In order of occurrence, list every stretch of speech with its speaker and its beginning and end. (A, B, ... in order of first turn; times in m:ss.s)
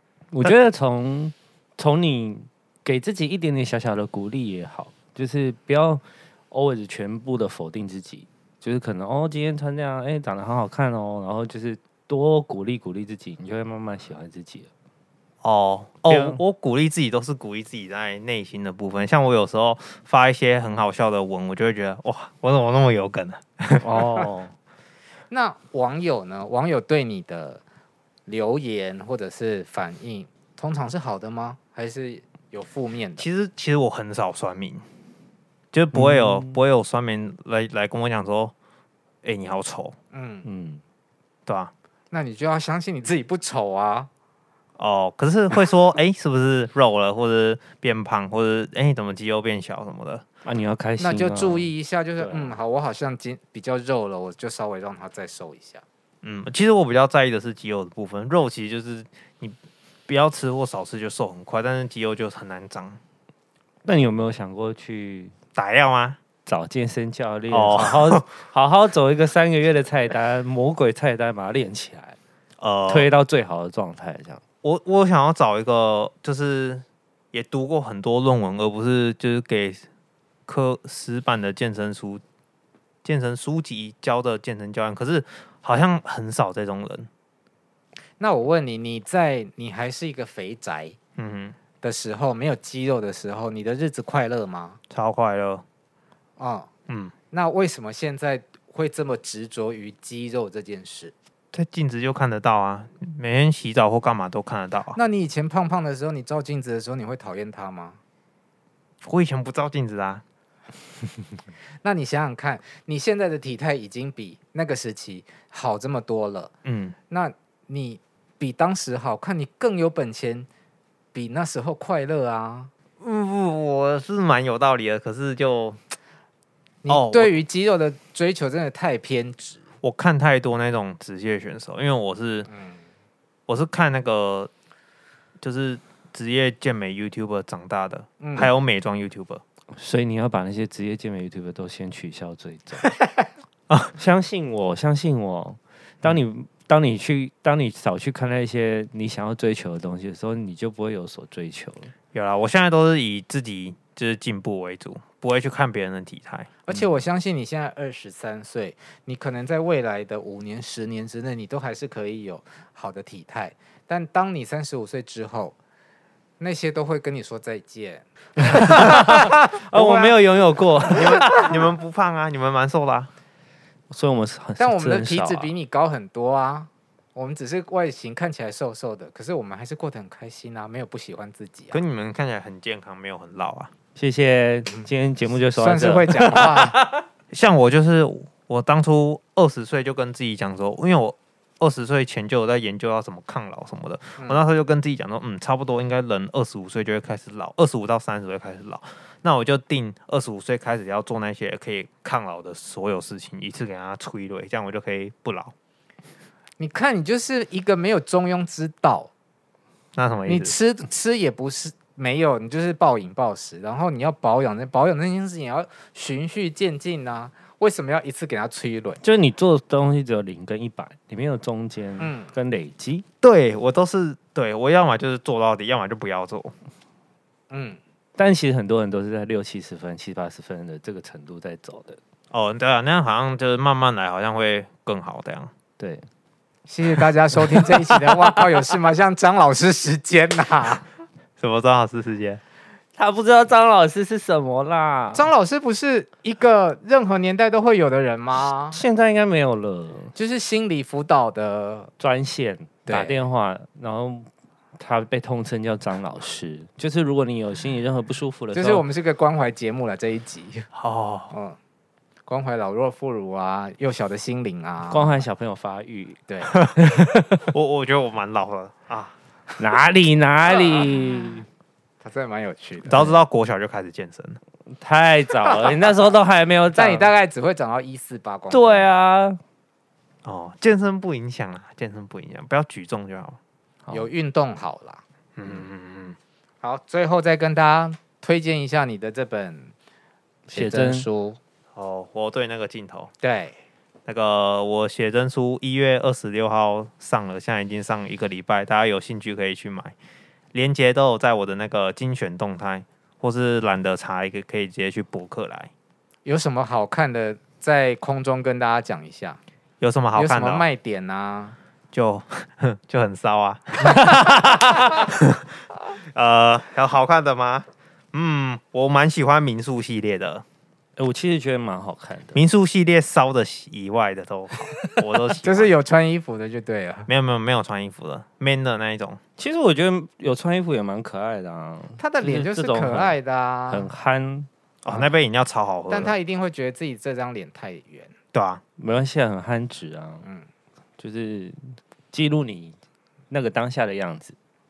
0:00.3-0:14.7 A
0:15.4-0:23.8 B
0:16.1-0:16.4 A
0:23.8-0:24.5 A
0:25.3-0:27.6 C
0:28.3-0:33.2 C
0:33.2-0:34.8 B
0:35.7-0:38.5 B
0:35.9-0:36.6 A
0:39.2-0:39.9 B
0:40.1-0:40.4 C
0:40.4-0:40.8 A
0:41.5-0:41.7 B
0:42.1-0:44.1 C
0:44.8-0:50.2 B
0:50.4-0:52.6 A
0:51.0-0:55.8 C
0:56.2-0:59.6 B
1:00.1-1:03.0 B
1:03.8-1:05.3 A
1:05.5-1:06.2 B
1:06.4-1:12.2 A
1:07.5-1:08.2 B
1:12.6-1:13.1 B
1:12.9-1:14.4 A
1:14.6-1:19.8 B
1:20.5-1:22.2 B
1:23.0-1:27.1 B
1:28.2-1:31.0 C
1:31.2-1:31.6 B
1:31.8-1:34.8 C
1:34.9-1:35.6 B
1:36.4-1:36.7 C
1:36.9-1:37.1 B
1:37.3-1:41.1 C
1:41.5-1:45.0 B
1:44.9-1:48.0 C
1:49.0-1:50.2 B
1:51.8-1:56.5 C
1:56.6-1:56.9 B
1:57.1-2:00.5 C
2:01.1-2:02.7 C
2:03.0-2:05.8 B
2:06.8-2:09.6 C
2:06.9-2:07.4 B
2:09.8-2:12.5 B
2:12.5-2:12.8 C
2:13.5-2:14.5 B
2:15.4-2:19.4 B
2:18.2-2:18.5 C
2:19.7-2:22.9 A
2:24.0-2:31.9 A
2:32.1-2:36.5 B
2:36.6-2:45.6 C
2:46.4-2:50.1 C
2:48.5-2:51.5 A
2:50.9-2:53.1 B
2:53.9-2:55.5 A
2:54.6-3:01.8 C
3:01.7-3:03.7 B
3:03.9-3:07.0 A
3:05.5-3:06.8 C
3:07.3-3:25.5 B
3:26.6-3:29.1 C
3:30.0-3:30.5 B
3:30.3-3:39.0 C
3:39.0-3:43.0 A
3:42.0-3:42.3 C
3:43.2-3:46.5 B
3:47.5-3:47.8 C
3:48.2-3:52.0 A
3:52.3-3:55.5 B
3:55.8-3:56.0 A
3:56.7-4:00.8 C
3:57.4-3:58.4 A
4:01.4-4:02.4 B
4:02.9-4:05.3 A
4:05.1-4:08.8 C
4:08.7-4:10.1 A
4:10.1-4:11.9 C
4:12.0-4:18.8 A
4:12.8-4:13.2 C
4:18.5-4:20.7 C
4:20.7-4:21.3 B
4:21.3-4:21.6 C
4:22.3-4:25.2 C
4:24.9-4:26.2 A
4:26.3-4:26.5 C
4:26.7-4:27.5 A
4:27.5-4:29.1 B
4:29.6-4:31.4 A
4:30.6-4:31.3 C
4:32.0-4:33.1 C
4:32.9-4:34.4 B
4:34.7-4:37.1 A
4:35.4-4:35.7 C
4:36.7-4:38.9 C
4:38.5-4:39.4 A
4:40.2-4:43.4 B
4:43.8-4:44.1 A
4:43.9-4:45.0 C
4:45.4-4:46.2 B
4:46.6-4:49.7 C
4:50.5-4:51.1 A
4:50.5-4:51.4 C
4:51.7-4:53.1 B
4:53.2-4:53.6 C
4:54.1-4:59.9 B
5:00.5-5:05.7 B
5:06.2-5:09.4 C
5:09.8-5:10.6 B
5:10.1-5:11.6 C
5:11.9-5:20.4 B
5:21.0-5:22.4 A
5:22.3-5:25.7 B
5:25.4-5:27.1 C
5:27.1-5:29.2 B
5:29.4-5:33.2 A
5:32.0-5:33.9 C
5:33.7-5:34.5 A
5:34.8-5:36.1 B
5:35.9-5:38.1 C
5:38.3-5:38.6 B
5:38.8-5:40.2 A
5:41.0-5:42.7 A
5:43.3-5:44.3 A